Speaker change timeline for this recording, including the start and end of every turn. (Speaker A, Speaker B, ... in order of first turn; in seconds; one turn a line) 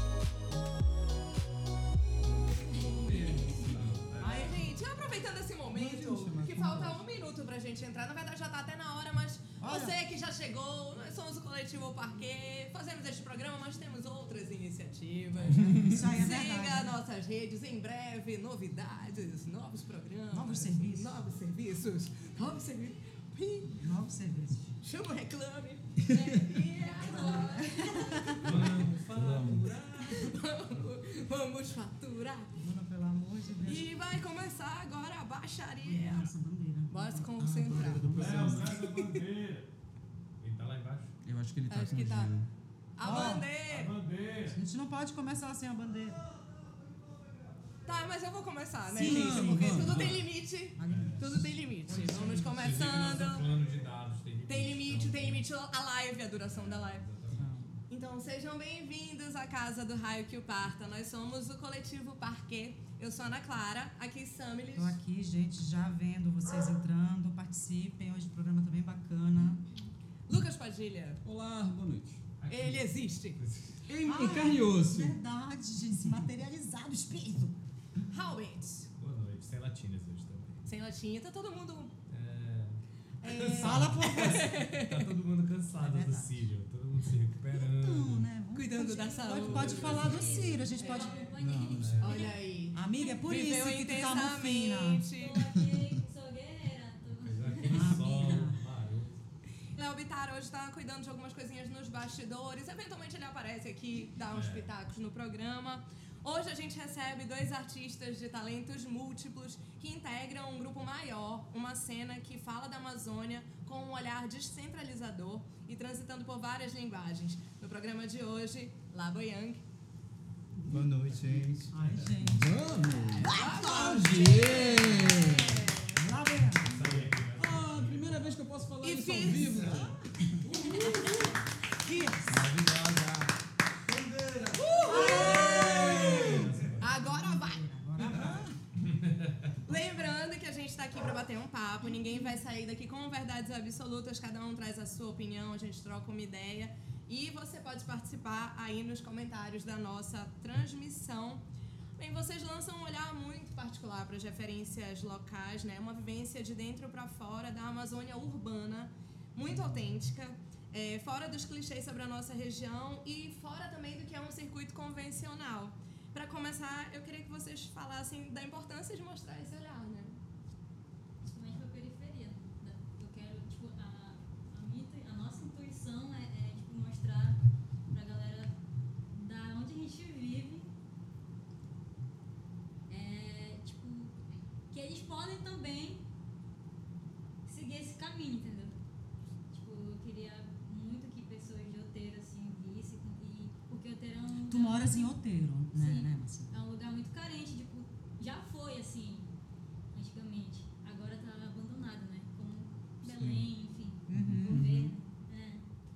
Speaker A: 2.7-3.7
Speaker B: 2.7-4.5
Speaker C: 4.2-4.7
Speaker D: 4.2-23.8
Speaker E: 5.7-7.0
Speaker C: 9.6-10.0
Speaker C: 15.5-17.0
Speaker C: 20.3-21.2
Speaker C: 23.7-24.7
Speaker D: 24.8-28.6
Speaker C: 27.0-28.6
Speaker B: 28.4-30.4
Speaker E: 28.6-29.6
Speaker D: 30.0-32.6
Speaker C: 32.6-33.9
Speaker D: 33.6-36.3
Speaker C: 35.8-38.9
Speaker D: 36.9-39.2
Speaker E: 37.7-38.7
Speaker B: 38.1-39.7
Speaker B: 40.4-41.1
Speaker F: 41.2-42.5
Speaker D: 41.7-42.3
Speaker D: 43.0-43.9
Speaker C: 43.0-43.5
Speaker F: 43.0-43.4
Speaker B: 43.1-44.6
Speaker C: 44.5-46.2
Speaker D: 47.9-53.5
Speaker C: 48.9-49.9
Speaker F: 49.0-50.1
Speaker B: 49.8-50.3
Speaker C: 50.8-52.8
Speaker B: 50.9-51.3
Speaker B: 51.9-55.4
Speaker D: 54.5-57.1
Speaker B: 56.4-57.5
Speaker C: 57.3-57.8
Speaker D: 57.9-65.0
Speaker C: 64.7-69.6
Speaker D: 70.3-71.2
Speaker F: 71.2-72.3
Speaker B: 72.4-73.8
Speaker D: 72.5-73.4
Speaker F: 73.9-75.2
Speaker C: 74.0-77.5
Speaker D: 78.1-78.9
Speaker B: 79.0-80.6
Speaker D: 80.7-81.9
Speaker B: 82.1-88.3
Speaker D: 83.2-85.1
Speaker C: 83.5-84.6
Speaker C: 85.8-86.4
Speaker C: 87.5-91.2
Speaker D: 88.5-91.3
Speaker B: 89.3-90.5
Speaker A: 89.9-92.4
Speaker E: 91.4-92.1
Speaker B: 91.8-92.2
Speaker D: 92.0-95.5
Speaker C: 92.7-95.0
Speaker A: 95.1-98.4
Speaker E: 95.6-96.0
Speaker B: 97.2-99.2
Speaker C: 97.7-98.6
Speaker D: 99.8-119.6
Speaker B: 104.2-104.7
Speaker E: 120.6-122.4
Speaker B: 121.3-123.1
Speaker C: 121.7-126.8
Speaker F: 122.3-125.7
Speaker D: 123.1-126.0
Speaker B: 126.6-128.4
Speaker E: 126.7-127.0
Speaker F: 127.3-130.0
Speaker D: 128.8-131.3
Speaker B: 130.4-131.3
Speaker F: 130.7-131.2
Speaker C: 131.8-132.5
Speaker D: 131.9-132.1
Speaker E: 132.3-133.3
Speaker B: 132.3-133.2
Speaker B: 133.8-136.9
Speaker D: 134.6-138.3
Speaker F: 134.9-136.5
Speaker C: 134.9-138.6
Speaker B: 138.0-139.6
Speaker F: 138.0-138.3
Speaker D: 139.7-151.4
Speaker D: 152.0-170.2
Speaker A: 171.2-178.6
Speaker A: 179.1-180.7
Speaker A: 182.9-184.1
Speaker A: 184.7-186.0
Speaker A: 187.4-188.7
Speaker A: 189.5-195.1
Speaker C: 194.5-196.5
Speaker A: 195.7-199.3
Speaker A: 199.9-205.6
Speaker E: 203.0-203.4
Speaker C: 204.1-204.7
Speaker F: 204.1-204.9